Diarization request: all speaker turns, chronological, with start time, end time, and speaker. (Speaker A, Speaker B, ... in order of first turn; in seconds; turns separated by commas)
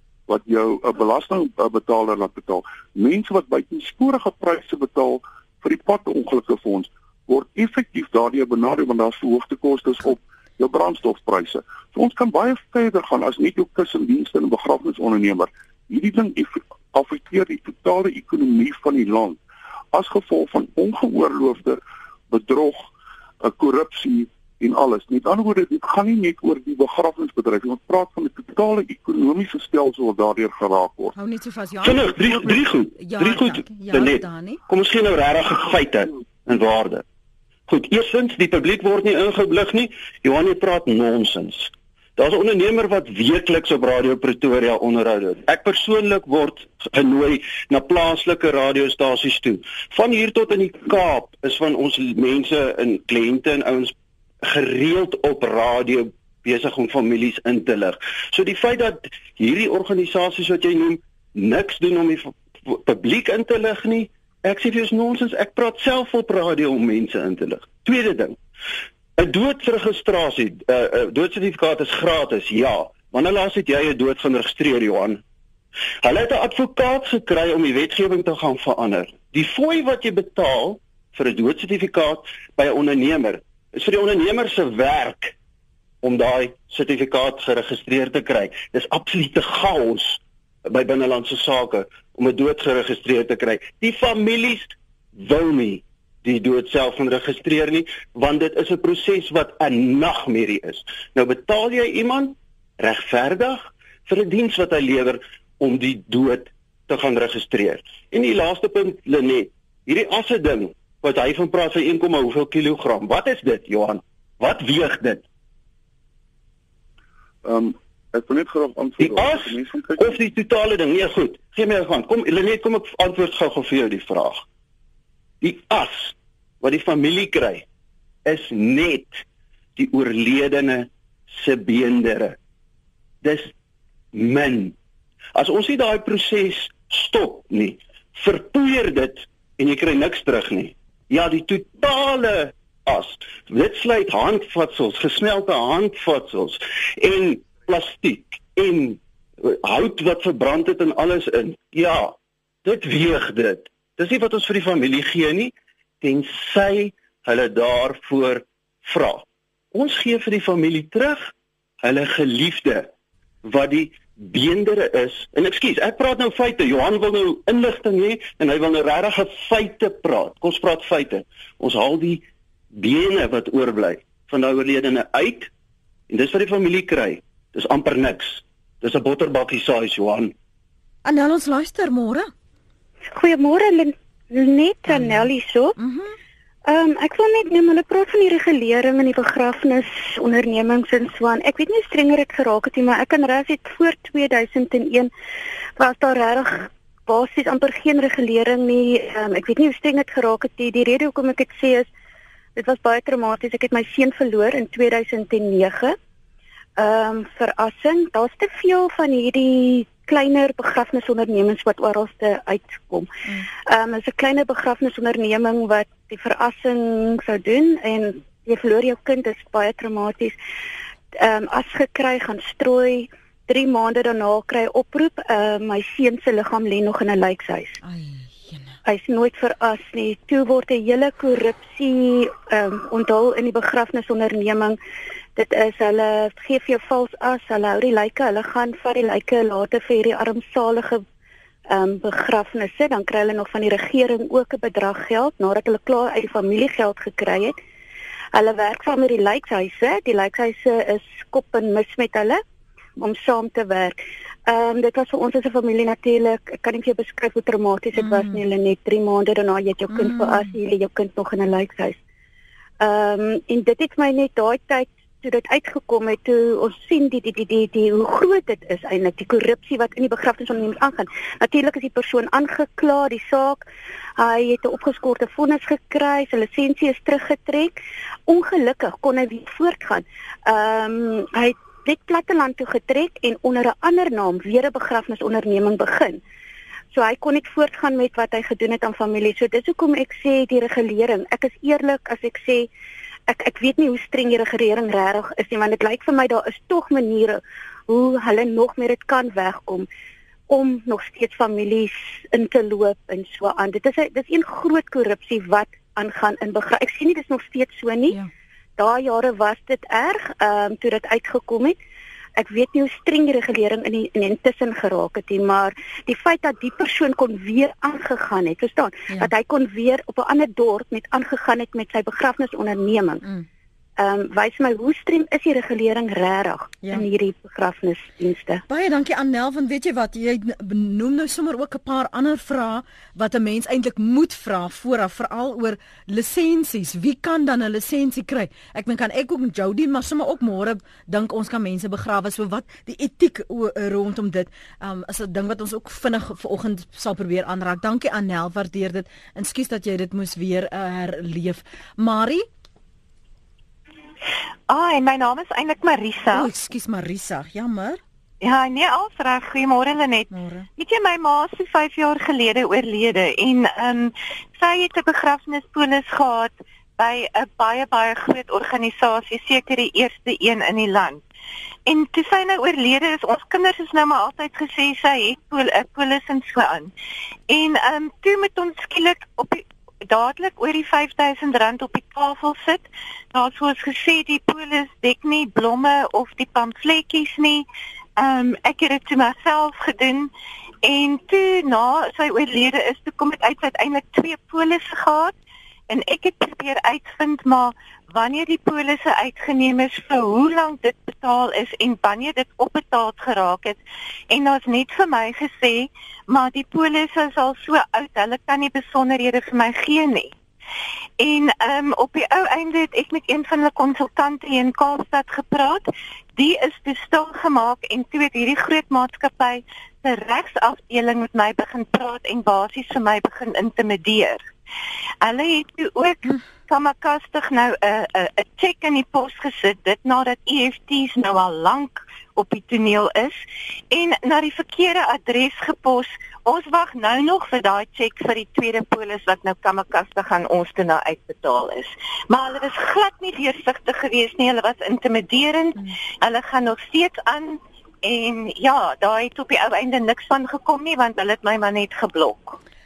Speaker A: 0.3-19.4, Speaker A: 19.9-22.9, Speaker A: 23.4-31.1, Speaker B: 31.1-34.6, Speaker C: 31.8-37.0, Speaker C: 37.7-68.4, Speaker C: 69.2-75.2, Speaker C: 76.0-85.3, Speaker C: 86.0-115.2, Speaker A: 117.4-120.1, Speaker C: 119.0-124.4, Speaker C: 125.4-127.7, Speaker C: 128.2-129.2, Speaker C: 129.8-132.4, Speaker C: 133.2-133.5, Speaker C: 134.1-134.7, Speaker C: 135.3-162.9, Speaker C: 163.4-175.5, Speaker C: 176.1-180.3, Speaker B: 181.0-182.3, Speaker D: 183.1-185.8, Speaker B: 184.9-186.1, Speaker D: 186.7-195.1, Speaker D: 195.8-201.9, Speaker D: 202.6-206.0, Speaker D: 206.8-213.1, Speaker D: 213.7-220.3, Speaker D: 221.2-227.8, Speaker B: 227.8-228.8, Speaker D: 228.8-234.8, Speaker D: 235.3-241.0, Speaker D: 241.7-247.6, Speaker D: 248.3-252.4, Speaker D: 253.0-262.0, Speaker B: 258.0-258.4, Speaker B: 259.9-260.5, Speaker D: 262.8-273.6, Speaker D: 274.2-286.2, Speaker D: 286.9-292.7, Speaker D: 293.3-299.9, Speaker D: 300.5-308.2, Speaker D: 308.8-311.8, Speaker D: 312.4-323.2, Speaker D: 324.0-328.6, Speaker B: 328.7-352.4, Speaker E: 354.7-356.5, Speaker B: 356.3-358.0, Speaker E: 358.4-371.2, Speaker B: 360.3-360.7, Speaker E: 371.9-376.9, Speaker E: 377.5-387.6, Speaker E: 388.2-390.3, Speaker E: 390.8-395.3, Speaker E: 395.9-403.8, Speaker E: 404.3-410.3, Speaker E: 411.2-424.5, Speaker E: 425.2-433.4, Speaker E: 433.9-452.6